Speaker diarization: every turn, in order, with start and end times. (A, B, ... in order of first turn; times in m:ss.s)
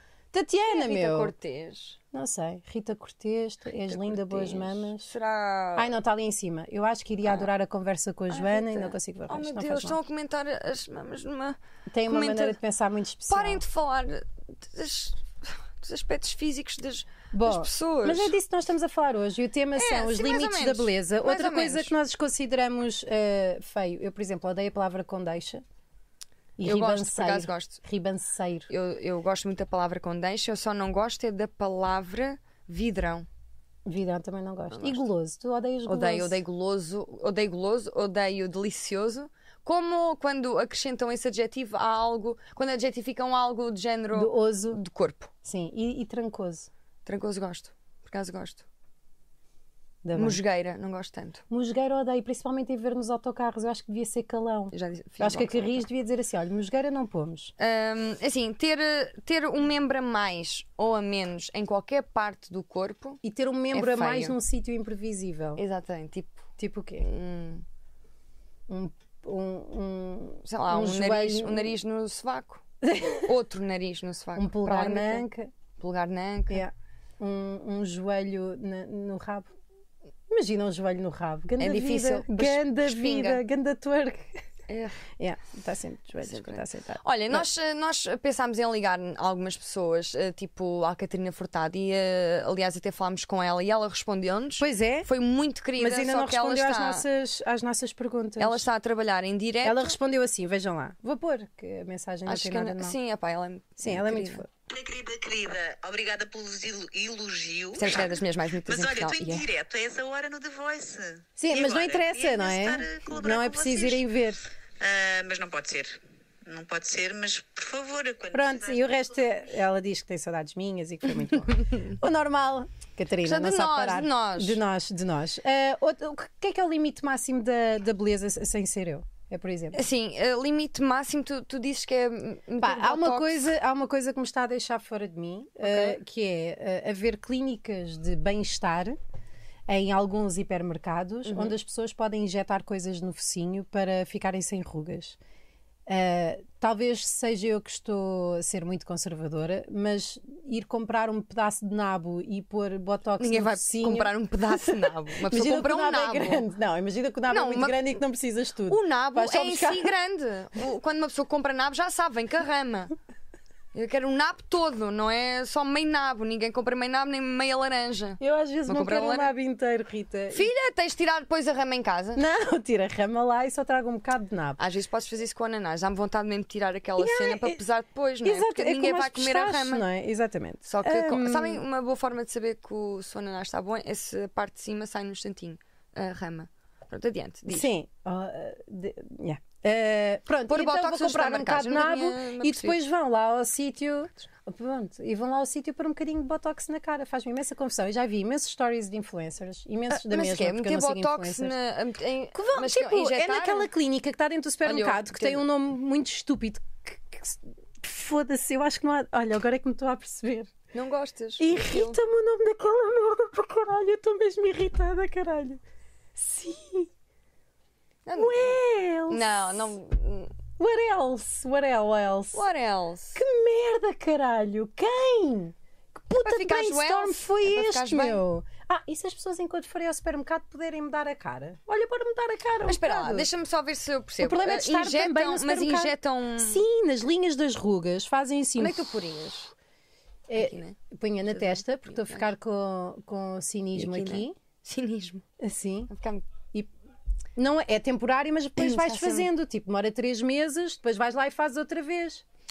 0:00.3-0:01.3 A
0:00.6-0:02.0 B
0:02.1-0:05.1 A
0:03.9-0:05.9 B
0:05.8-0:10.0 A
0:08.3-0:12.6 B
0:11.9-0:13.6 A
0:13.3-0:18.3 B
0:17.3-0:25.6 A
0:19.7-0:21.9 B
0:26.6-0:28.7 A
0:26.6-0:27.8 B
0:28.7-0:33.3 B
0:33.8-0:36.4 A
0:34.7-0:35.0 B
0:35.9-0:45.3 B
0:44.1-0:44.8 A
0:45.4-0:46.7 A
0:47.1-0:48.6 B
0:50.0-0:50.4 A
0:50.1-0:51.4 B
0:51.5-0:57.5 A
0:54.7-0:55.8 B
0:57.6-1:03.2 B
1:03.2-1:05.6 A
1:03.7-1:04.4 B
1:05.6-1:06.5 B
1:06.6-1:07.1 A
1:07.0-1:07.6 B
1:08.7-1:11.8 A
1:10.4-1:15.2 B
1:12.8-1:13.3 A
1:14.4-1:15.5 A
1:15.8-1:16.6 B
1:16.5-1:19.5 A
1:20.3-1:24.4 A
1:21.6-1:23.4 B
1:24.7-1:25.0 B
1:25.2-1:27.4 A
1:26.2-1:37.0 B
1:34.6-1:35.1 A
1:35.8-1:38.6 A
1:38.4-1:40.0 B
1:39.6-1:43.0 A
1:42.2-1:44.4 B
1:43.8-1:44.5 A
1:44.7-1:54.1 C
1:47.7-1:49.4 B
1:51.4-1:54.4 A
1:54.8-1:59.0 C
1:58.3-2:09.8 A
2:03.2-2:04.6 B
2:09.7-2:13.5 B
2:12.6-2:19.0 A
2:15.6-2:16.0 B
2:19.7-2:25.2 A
2:21.2-2:21.5 B
2:25.9-2:39.9 A
2:33.2-2:36.4 B
2:37.3-2:37.9 B
2:38.7-2:42.9 B
2:43.7-2:49.3 B
2:48.2-2:50.5 A
2:50.3-2:52.2 B
2:52.2-2:54.6 A
2:54.6-2:59.8 B
2:57.0-2:57.6 A
2:58.2-3:01.6 A
3:00.6-3:07.7 B
3:07.5-3:21.6 A
3:10.5-3:12.8 B
3:19.9-3:23.7 B
3:22.3-3:30.5 A
3:24.6-3:25.4 B
3:30.7-3:32.0 B
3:31.4-3:35.6 A
3:36.2-3:36.9 A
3:38.1-3:40.3 B
3:38.2-3:39.6 A
3:40.6-3:42.4 A
3:42.3-3:43.2 B
3:43.2-3:53.3 A
3:46.2-3:48.2 B
3:52.6-3:56.6 B
3:54.2-3:58.9 A
3:58.6-3:59.5 B
4:00.3-4:04.4 A
4:00.4-4:02.3 B
4:03.8-4:05.2 B
4:05.4-4:05.9 A
4:05.9-4:06.2 B
4:07.4-4:12.2 A
4:08.6-4:09.3 B